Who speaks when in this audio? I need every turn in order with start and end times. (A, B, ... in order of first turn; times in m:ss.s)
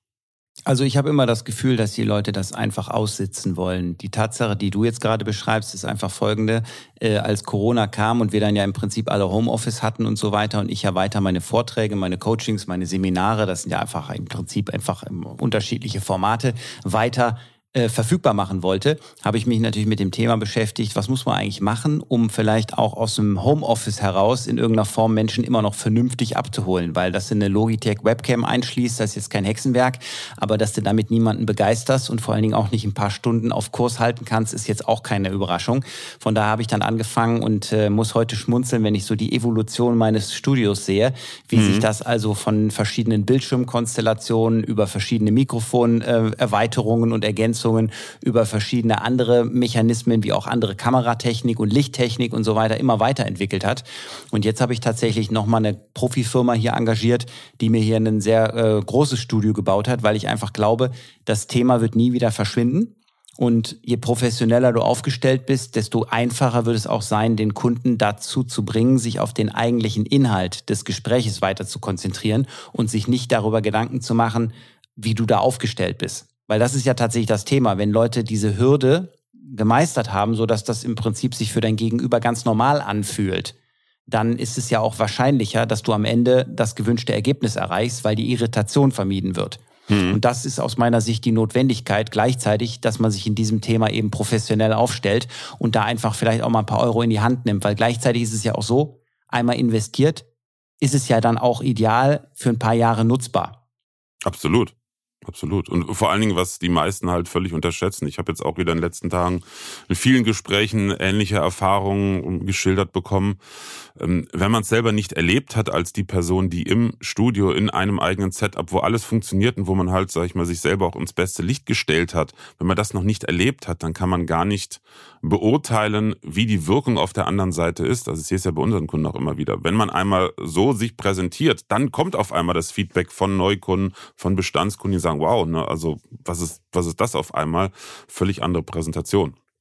0:00.7-1:23.5 A
0:41.5-0:41.8 B
1:24.1-1:40.2 A
1:29.9-1:30.2 B
1:40.8-1:43.6 A
1:44.2-1:53.4 B
1:54.0-2:19.3 B